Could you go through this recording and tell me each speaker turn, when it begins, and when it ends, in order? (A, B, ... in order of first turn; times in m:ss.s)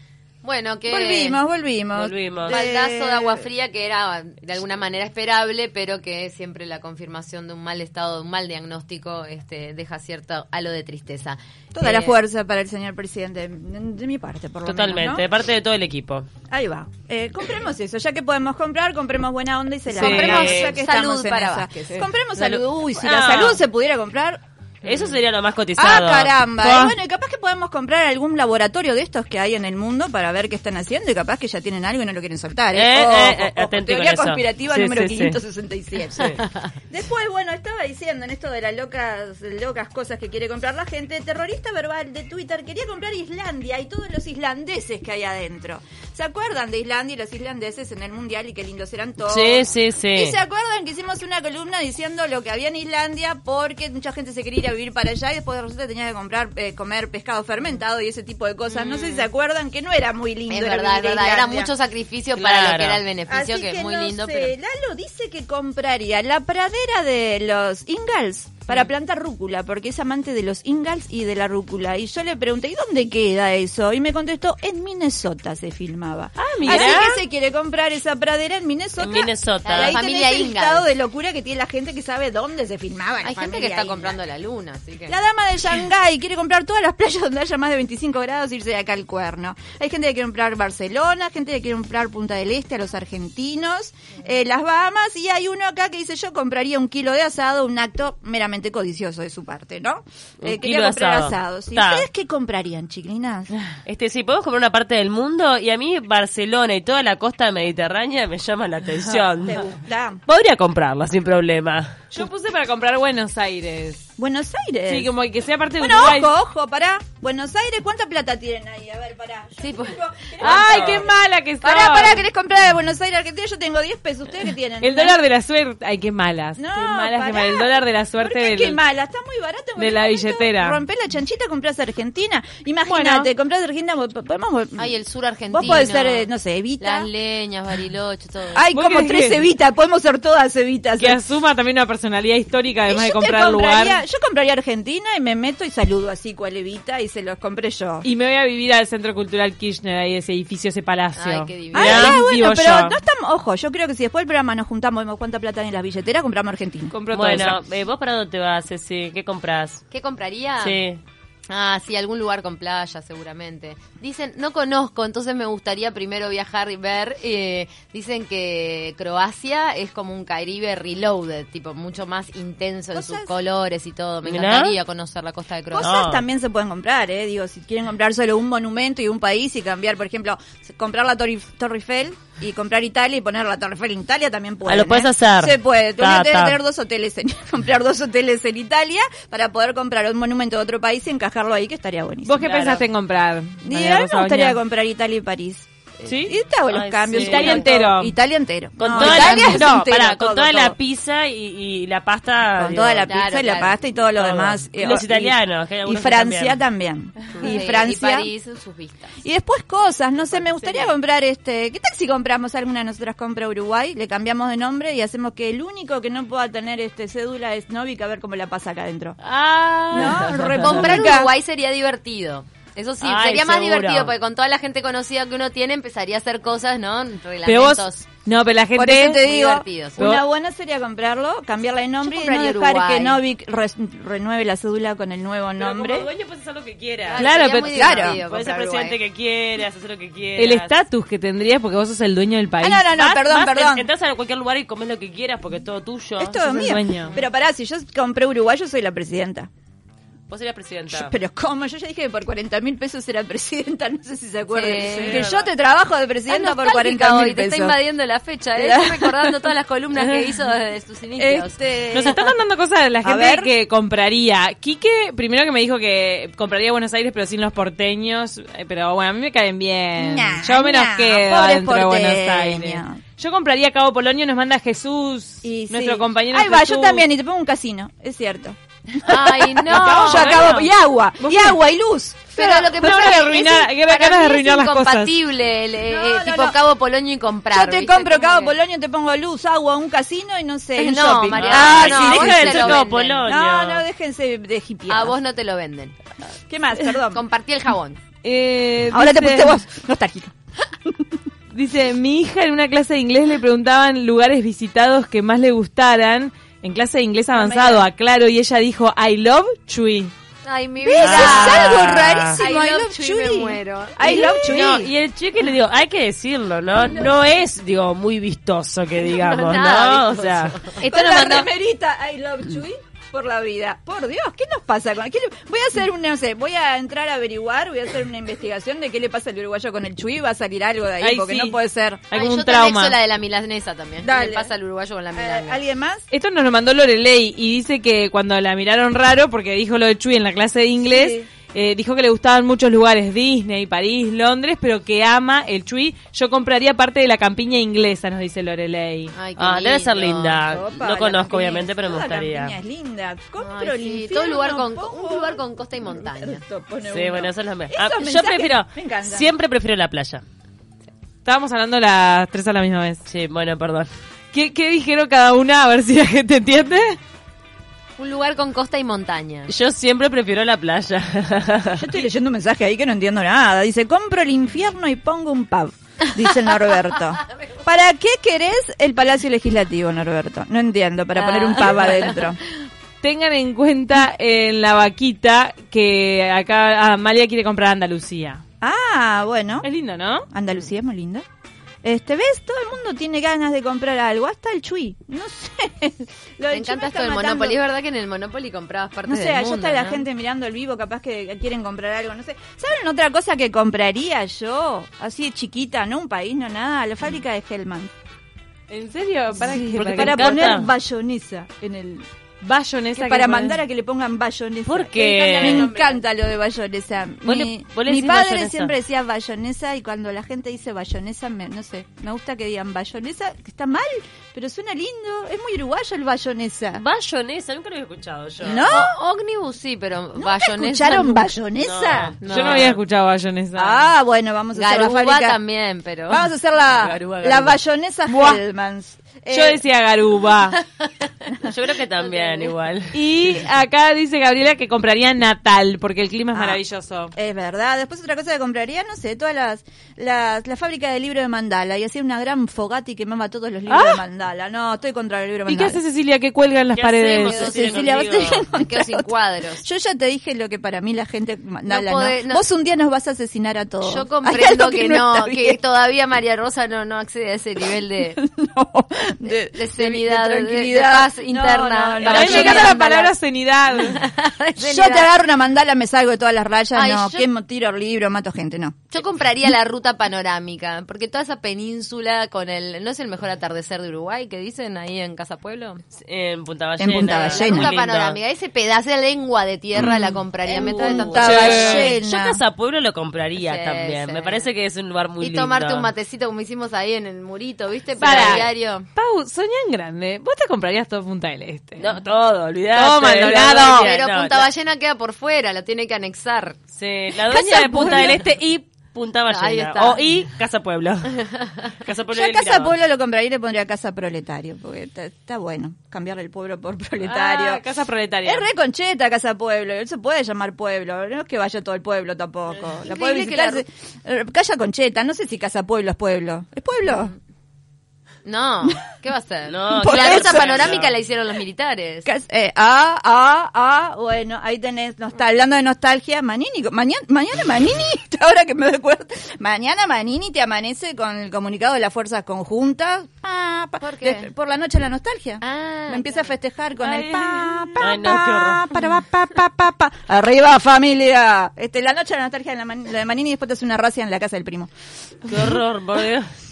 0:00.4-0:01.4 A
0:00.8-0:03.4 B
0:02.0-0:02.6 C
0:02.5-0:12.2 A
0:11.7-0:15.2 B
0:14.6-0:16.3 C
0:16.5-0:24.4 B
0:19.9-0:20.7 C
0:19.9-0:22.1 A
0:22.4-0:23.5 C
0:23.1-0:23.5 D
0:24.8-0:26.9 C
0:25.8-1:01.7 B
0:32.7-0:35.4 C
0:36.2-0:36.4 C
0:49.3-0:50.4 C
0:58.7-0:59.3 A
1:00.5-1:04.5 A
1:02.4-1:03.0 C
1:03.3-1:24.2 B
1:16.4-1:17.0 D
1:16.6-1:17.2 C
1:19.0-1:20.0 C
1:19.6-1:20.8 A
1:23.2-1:25.2 A
1:25.1-1:43.5 B
1:40.4-1:42.0 C
1:43.8-1:49.7 C
1:49.4-1:50.2 B
1:50.2-1:52.0 C
1:52.1-1:54.1 D
1:54.2-1:55.1 B
1:54.9-1:56.3 D
1:55.8-2:05.2 B
1:59.6-2:00.3 A
2:00.4-2:02.2 D
2:00.6-2:01.0 C
2:04.8-2:08.8 D
2:06.6-2:14.9 B
2:09.8-2:10.8 D
2:12.9-2:13.3 D
2:14.8-2:18.6 A
2:15.5-2:17.1 B
2:18.5-2:21.2 B
2:18.7-2:19.4 D
2:21.0-2:24.0 D
2:22.8-2:28.1 B
2:28.0-2:33.0 D
2:31.1-2:32.0 A
2:31.7-2:36.9 B
2:31.8-2:32.2 C
2:36.9-2:37.6 D
2:37.1-2:39.8 C
2:39.9-2:40.8 A
2:40.6-2:41.0 C
2:41.5-2:56.0 A
2:52.9-2:53.3 B
2:54.2-2:54.7 C
2:55.7-3:12.8 B
2:55.8-2:56.2 C
3:04.6-3:06.6 C
3:12.2-3:14.6 D
3:12.4-3:12.8 C
3:13.6-3:20.8 B
3:16.0-3:16.4 D
3:16.7-3:17.7 C
3:17.1-3:18.1 D
3:18.8-3:23.1 C
3:18.9-3:19.8 D
3:22.5-3:28.3 B
3:23.0-3:23.8 A
3:24.1-3:26.6 C
3:27.4-3:29.2 A
3:29.2-3:39.2 B
3:30.3-3:30.9 A
3:39.2-3:40.7 C
3:39.9-3:41.3 B
3:40.0-3:48.1 A
3:43.0-3:44.1 C
3:47.4-3:49.2 D
3:48.7-3:56.1 B
3:49.2-3:50.0 A
3:50.0-3:50.2 D
3:52.0-3:53.2 A
3:55.6-3:57.2 C
3:57.1-3:59.0 A
3:57.1-3:58.0 D
3:57.7-3:58.2 B
3:58.0-4:00.7 C
4:00.4-4:02.9 D
4:02.6-4:03.8 B
4:02.9-4:06.4 C
4:06.2-4:09.5 B
4:06.4-4:07.1 D
4:10.3-4:11.1 C
4:10.9-4:17.8 B
4:14.5-4:15.2 A
4:14.8-4:15.5 C
4:16.3-4:21.6 A
4:18.6-4:19.3 B
4:21.2-4:22.2 B
4:21.9-4:37.0 D
4:23.0-4:23.5 B
4:30.0-4:33.0 B
4:35.4-4:43.4 B
4:39.0-4:40.5 A
4:39.7-4:41.6 D
4:42.3-4:48.6 A
4:42.4-4:45.2 D
4:45.9-4:46.6 B
4:47.5-4:55.2 B
4:50.8-4:53.3 A
4:51.3-4:53.8 C
4:54.9-4:55.9 A
4:56.5-4:57.2 B
4:57.1-4:58.0 A
4:58.2-4:59.5 D
4:58.9-5:01.1 B
5:01.5-5:10.1 D
5:07.3-5:07.8 B
5:10.4-5:11.8 A
5:10.8-5:14.9 B
5:11.0-5:12.4 C
5:12.4-5:14.8 A
5:14.0-5:20.7 C
5:19.0-5:21.5 A
5:20.8-5:32.1 B
5:31.0-5:31.6 D
5:32.1-5:33.0 D
5:32.1-5:35.6 A
5:34.0-5:34.5 B
5:35.1-5:36.1 B
5:36.1-5:49.1 D
5:40.8-5:41.3 B
5:49.1-5:50.4 A
5:49.4-5:52.6 C
5:50.5-5:59.3 B
5:53.4-5:56.4 A
5:56.8-6:00.2 C
6:01.2-6:03.0 D
6:03.0-6:03.9 C
6:04.3-6:07.0 D
6:08.0-6:09.5 A
6:09.5-6:11.9 C
6:11.8-6:22.4 B
6:21.2-6:22.2 A
6:23.0-6:28.4 D
6:28.6-6:29.7 B
6:29.6-6:30.3 D
6:30.3-6:31.2 B
6:31.8-6:37.6 B
6:36.5-6:40.0 A
6:39.0-6:47.9 B
6:48.7-6:50.6 D
6:49.4-6:52.1 B
6:49.5-6:50.7 C
6:52.4-6:53.6 D
6:52.9-7:06.8 B
6:54.6-6:55.7 C
6:55.0-6:56.0 D
6:57.2-6:58.8 C
7:06.8-7:08.7 C
7:08.4-7:09.0 B
7:08.5-7:11.3 A
7:10.1-7:12.2 B
7:11.6-7:12.8 C
7:12.2-7:12.7 A
7:12.2-7:13.9 D
7:13.6-7:15.4 B
7:14.5-7:16.2 A
7:16.1-7:19.6 B
7:16.7-7:17.6 C
7:18.1-7:18.4 D
7:19.3-7:20.6 D
7:21.4-7:23.4 C
7:22.1-7:22.5 A
7:22.9-7:27.1 D
7:26.3-7:26.6 B
7:27.1-7:35.8 B
7:33.7-7:34.0 D
7:35.5-7:37.5 D
7:36.7-7:38.4 C
7:37.3-7:39.1 B
7:37.3-7:39.6 A
7:39.6-7:45.6 B
7:41.6-7:42.4 A
7:43.8-7:48.2 A
7:48.2-7:52.8 B
7:49.2-7:53.1 A
7:52.0-7:54.0 D
7:52.2-7:52.5 C
7:53.8-7:55.1 A
7:54.6-7:59.5 B
7:56.7-7:57.3 A
7:58.9-8:05.8 A
8:06.0-8:08.2 C
8:06.8-8:07.7 B
8:07.3-8:11.8 A
8:09.7-8:12.4 B
8:10.5-8:15.9 C
8:13.4-8:14.5 A
8:15.2-8:18.9 A
8:18.0-8:21.9 D
8:18.1-8:18.4 C
8:21.8-8:24.5 C
8:22.7-8:23.9 D
8:23.3-8:26.6 A
8:26.7-8:32.8 C
8:27.3-8:28.2 D
8:27.3-8:28.2 B
8:29.3-8:30.1 A
8:32.1-8:37.6 B
8:37.0-8:38.4 D
8:38.2-8:47.1 B
8:42.8-8:43.6 A
8:46.8-8:47.1 A
8:48.2-8:52.1 A
8:49.5-8:51.0 C
8:49.7-8:50.8 B
8:52.0-9:14.7 B
9:03.8-9:04.3 A
9:05.4-9:06.3 A
9:06.8-9:07.8 D
9:07.8-9:08.6 C
9:15.2-9:16.3 C